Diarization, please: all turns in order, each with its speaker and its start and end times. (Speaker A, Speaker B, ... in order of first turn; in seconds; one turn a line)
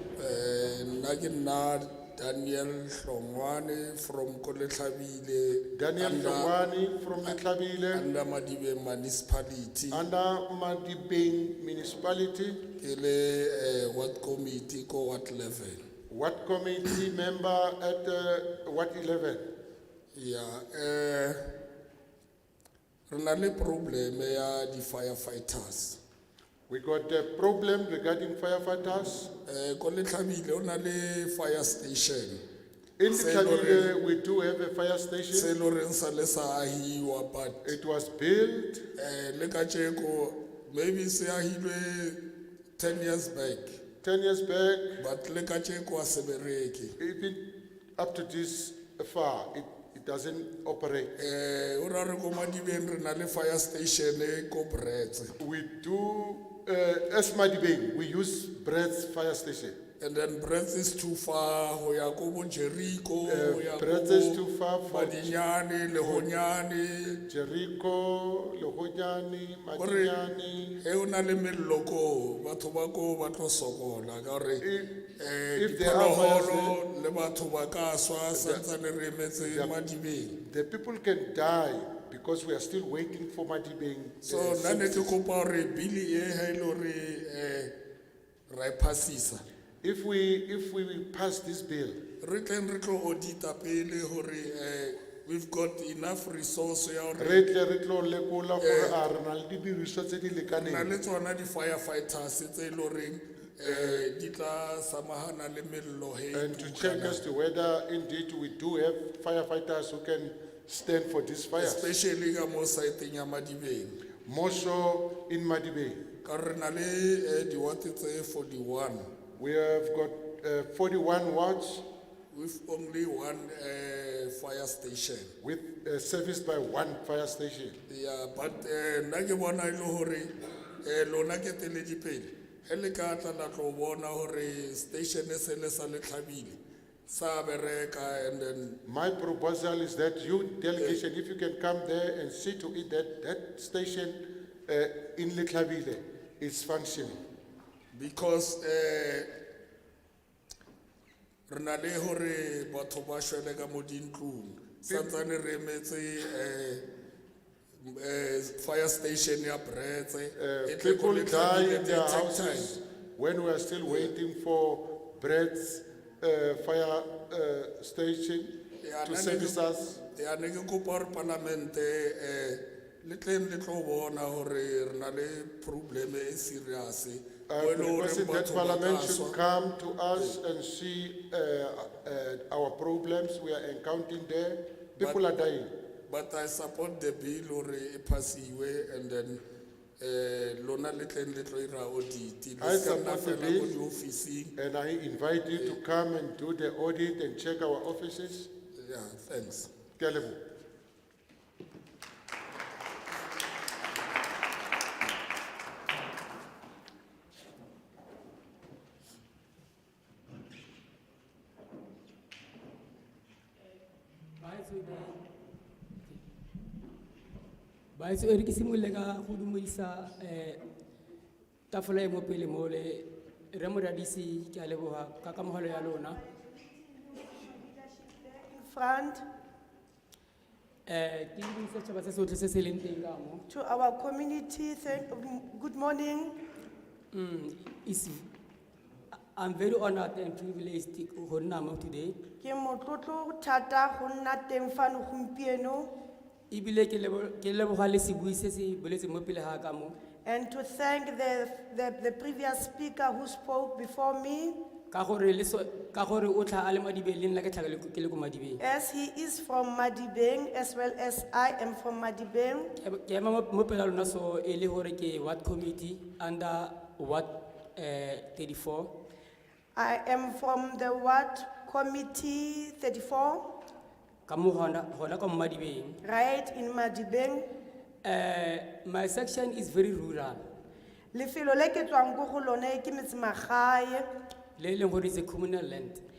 Speaker A: 0.2-6.5
Speaker B: 5.7-8.1
Speaker A: 7.9-10.1
Speaker B: 9.9-12.7
Speaker A: 12.8-15.9
Speaker B: 16.1-19.4
Speaker A: 20.1-21.5
Speaker A: 23.1-26.0
Speaker B: 26.7-29.3
Speaker A: 29.4-32.4
Speaker B: 33.0-35.5
Speaker A: 33.1-33.9
Speaker A: 35.3-37.7
Speaker B: 37.6-38.9
Speaker A: 39.0-42.2
Speaker A: 42.8-43.8
Speaker B: 44.0-45.0
Speaker A: 45.0-47.0
Speaker B: 47.0-47.5
Speaker B: 48.0-51.1
Speaker A: 51.2-55.4
Speaker B: 55.4-59.8
Speaker A: 60.0-67.2
Speaker B: 63.2-65.4
Speaker B: 66.0-66.3
Speaker B: 67.2-70.8
Speaker A: 69.8-70.2
Speaker A: 70.8-74.7
Speaker B: 74.6-76.8
Speaker A: 75.2-80.4
Speaker B: 78.3-78.7
Speaker B: 79.4-79.8
Speaker B: 80.4-85.2
Speaker A: 84.2-87.7
Speaker A: 88.5-89.4
Speaker B: 89.8-92.0
Speaker A: 92.2-97.5
Speaker B: 97.2-100.9
Speaker A: 98.6-99.0
Speaker A: 100.5-107.2
Speaker B: 103.6-104.0
Speaker B: 106.3-111.9
Speaker A: 111.6-114.0
Speaker B: 114.3-116.0
Speaker A: 116.2-119.1
Speaker B: 119.4-121.8
Speaker A: 122.3-125.3
Speaker B: 125.4-127.8
Speaker A: 127.9-138.8
Speaker B: 138.8-147.2
Speaker A: 140.8-141.0
Speaker A: 147.9-149.3
Speaker A: 151.5-156.8
Speaker A: 157.8-162.8
Speaker B: 160.4-170.0
Speaker A: 168.8-179.4
Speaker B: 177.5-185.7
Speaker A: 186.1-189.4
Speaker A: 190.0-194.6
Speaker B: 192.6-193.8
Speaker B: 194.6-198.5
Speaker A: 198.8-199.7
Speaker B: 200.0-200.4
Speaker C: 214.4-215.2
Speaker C: 217.9-220.6
Speaker C: 221.7-226.2
Speaker D: 225.8-229.2
Speaker C: 230.9-233.4
Speaker D: 233.5-236.4
Speaker C: 237.1-238.3
Speaker C: 239.3-242.2
Speaker D: 242.4-245.9
Speaker C: 246.5-249.9
Speaker D: 250.2-254.6
Speaker C: 254.9-258.6
Speaker D: 258.6-262.7
Speaker C: 262.8-268.9
Speaker D: 269.8-273.5
Speaker C: 274.3-276.0
Speaker D: 276.0-277.5
Speaker C: 278.0-280.5
Speaker D: 281.1-284.1
Speaker C: 284.6-286.0